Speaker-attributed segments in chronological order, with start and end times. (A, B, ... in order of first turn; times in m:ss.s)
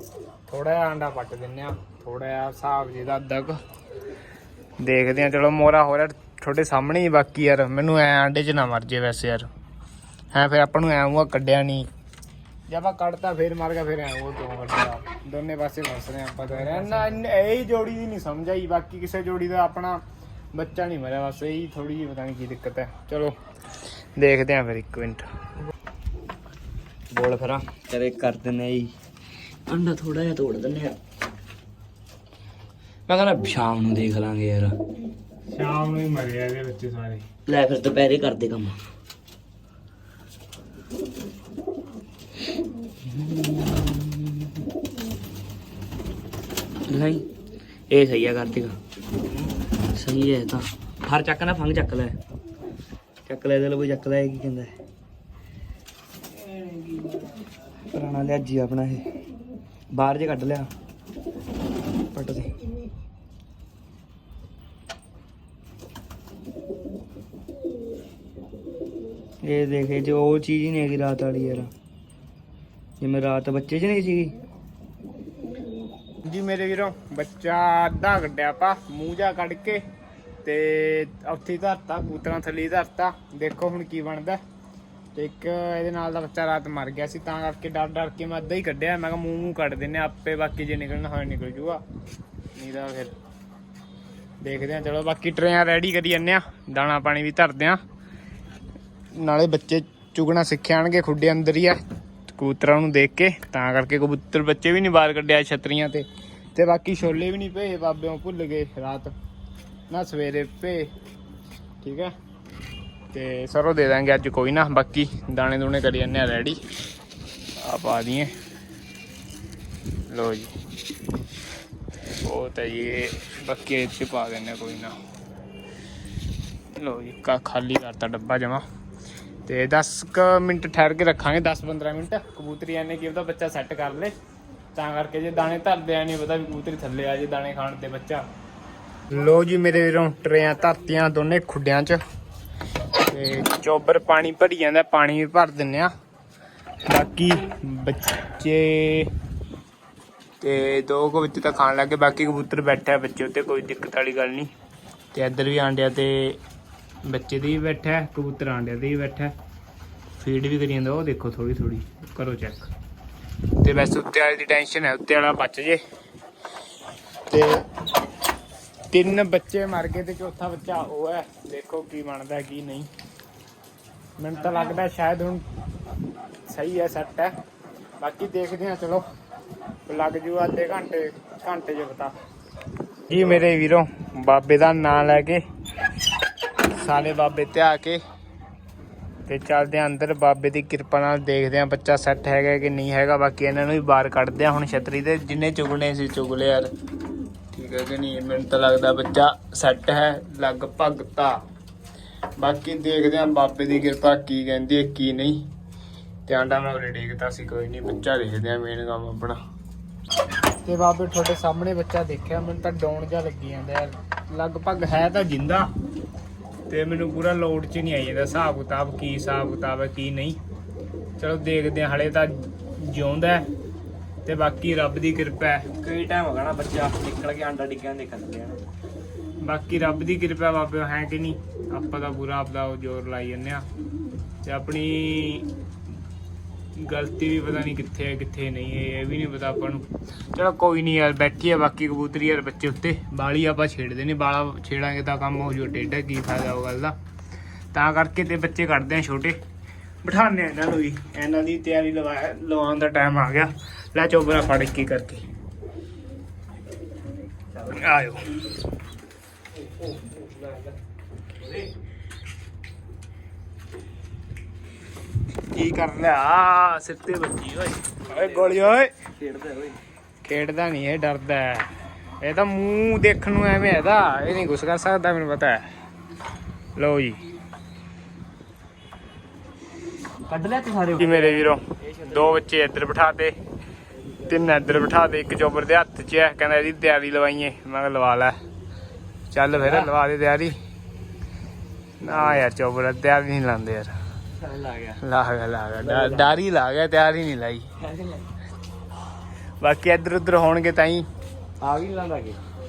0:00.5-0:03.6 A
0:04.8-0:09.5 A
0:10.3-0:11.9 A
0:12.7-0:20.0 A
0:20.5-0:23.3 A
0:24.1-0:25.2 A
0:27.1-0:28.9 B
0:29.7-0:31.0 B
0:33.1-0:34.8 B
0:35.5-0:37.2 A
0:37.5-0:38.8 B
0:43.0-0:44.7 B
0:46.9-0:47.3 B
0:47.9-0:48.8 B
0:49.4-0:52.2 B
0:53.2-0:54.7 B
0:57.9-0:59.1 B
0:59.9-1:00.7 B
1:02.1-1:02.5 B
1:09.4-1:11.7 B
1:13.0-1:14.4 B
1:16.2-1:19.8 A
1:20.4-1:24.4 A
1:25.1-1:31.8 A
1:32.6-1:33.1 A
1:34.4-1:37.8 A
1:39.1-1:49.1 A
1:49.9-1:50.9 A
1:51.8-1:52.1 A
1:53.1-1:56.6 A
1:57.6-1:58.3 A
2:00.1-2:00.5 A
2:02.2-2:05.0 A
2:06.7-2:08.6 A
2:09.4-2:14.1 A
2:14.7-2:18.2 A
2:19.1-2:22.0 A
2:23.0-2:25.9 A
2:26.9-2:29.1 A
2:30.4-2:34.5 A
2:35.1-2:36.4 A
2:37.0-2:39.3 A
2:40.2-2:42.7 A
2:43.6-2:45.8 A
2:47.3-2:47.6 A
2:48.9-2:52.9 A
2:54.2-2:55.4 A
2:56.5-2:57.3 A
2:58.0-2:59.0 A
2:59.9-3:02.1 A
3:03.1-3:05.4 A
3:03.1-3:03.4 B
3:06.7-3:08.0 A
3:09.3-3:16.7 A
3:17.5-3:21.4 A
3:22.4-3:25.5 A
3:26.2-3:29.4 A
3:30.6-3:35.7 A
3:36.7-3:40.4 A
3:41.2-3:43.5 A
3:44.2-3:45.7 A
3:45.8-3:48.6 B
3:49.4-3:53.7 A
3:54.4-3:55.5 A
3:56.7-4:07.0 A
4:07.7-4:09.4 A
4:10.0-4:15.2 A
4:17.6-4:18.3 A
4:20.0-4:20.7 B
4:25.5-4:29.0 A
4:28.0-4:29.8 B
4:30.2-4:35.7 A
4:36.8-4:37.2 A
4:40.3-4:42.3 B
4:41.0-4:43.3 A
4:44.2-4:48.4 A
4:49.3-4:50.6 A
4:49.6-4:49.9 B
4:52.0-4:53.9 A
4:52.0-4:52.4 B
4:54.4-4:55.0 B
4:55.0-4:57.7 A
4:55.8-4:56.4 B
4:57.8-4:58.3 B
4:59.6-5:01.1 A
5:01.6-5:02.4 B